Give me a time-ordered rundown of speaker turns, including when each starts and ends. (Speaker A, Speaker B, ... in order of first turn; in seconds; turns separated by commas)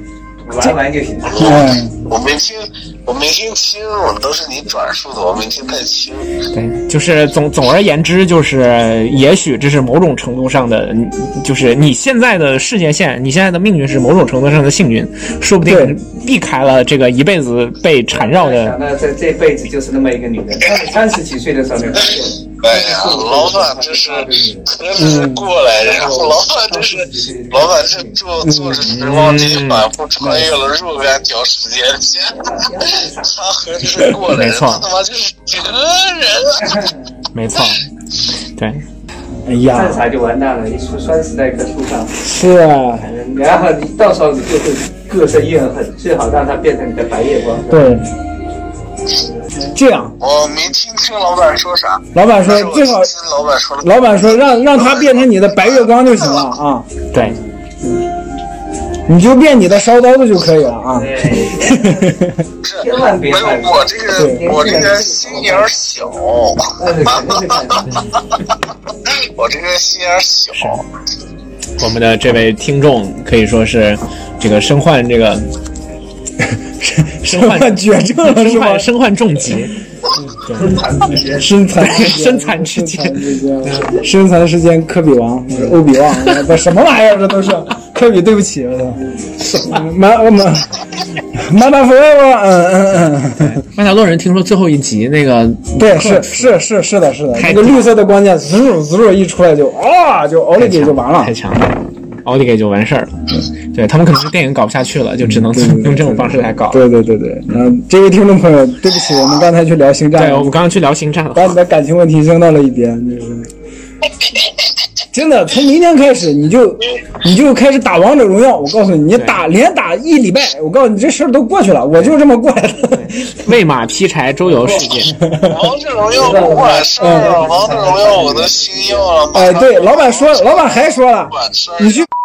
Speaker A: 0.5-1.5, Speaker B: 1.3-6.3, Speaker C: 1.4-2.0, Speaker D: 6.5-18.8, Speaker C: 15.7-16.0, Speaker A: 18.1-24.8, Speaker B: 22.6-36.8, Speaker C: 25.0-25.5, Speaker A: 25.7-28.2, Speaker C: 28.4-28.8, Speaker D: 28.8-29.9, Speaker C: 30.2-30.5, Speaker A: 32.3-33.3, Speaker D: 34.2-34.9, Speaker D: 37.3-37.8, Speaker D: 38.5-38.8, Speaker C: 39.5-40.0, Speaker A: 39.7-42.2, Speaker C: 42.2-43.1, Speaker A: 43.0-47.9, Speaker C: 47.7-48.1, Speaker C: 49.7-50.2, Speaker B: 50.2-56.4, Speaker C: 52.1-53.1, Speaker C: 53.8-56.9, Speaker D: 57.1-57.4, Speaker C: 59.1-62.4, Speaker A: 61.0-62.2, Speaker B: 62.6-67.8, Speaker A: 62.8-65.9, Speaker C: 64.2-64.5, Speaker A: 66.8-68.0, Speaker B: 69.1-70.8, Speaker D: 70.5-70.8, Speaker D: 71.8-75.5, Speaker C: 76.8-78.9, Speaker D: 77.2-79.8, Speaker D: 80.5-80.8, Speaker A: 80.5-81.6, Speaker C: 81.3-89.0, Speaker D: 81.8-84.0, Speaker D: 85.5-86.4, Speaker D: 89.4-89.8, Speaker C: 89.6-90.7, Speaker C: 91.3-93.6, Speaker D: 93.4-96.6, Speaker C: 95.8-101.3, Speaker D: 97.3-97.9, Speaker D: 100.6-106.8, Speaker C: 105.3-110.6, Speaker D: 110.2-111.6, Speaker C: 111.3-113.5, Speaker C: 115.1-123.3, Speaker D: 119.2-119.4, Speaker D: 122.9-125.1, Speaker C: 125.2-125.6, Speaker B: 125.3-132.1, Speaker A: 126.1-129.1, Speaker C: 127.0-127.3, Speaker C: 129.3-132.1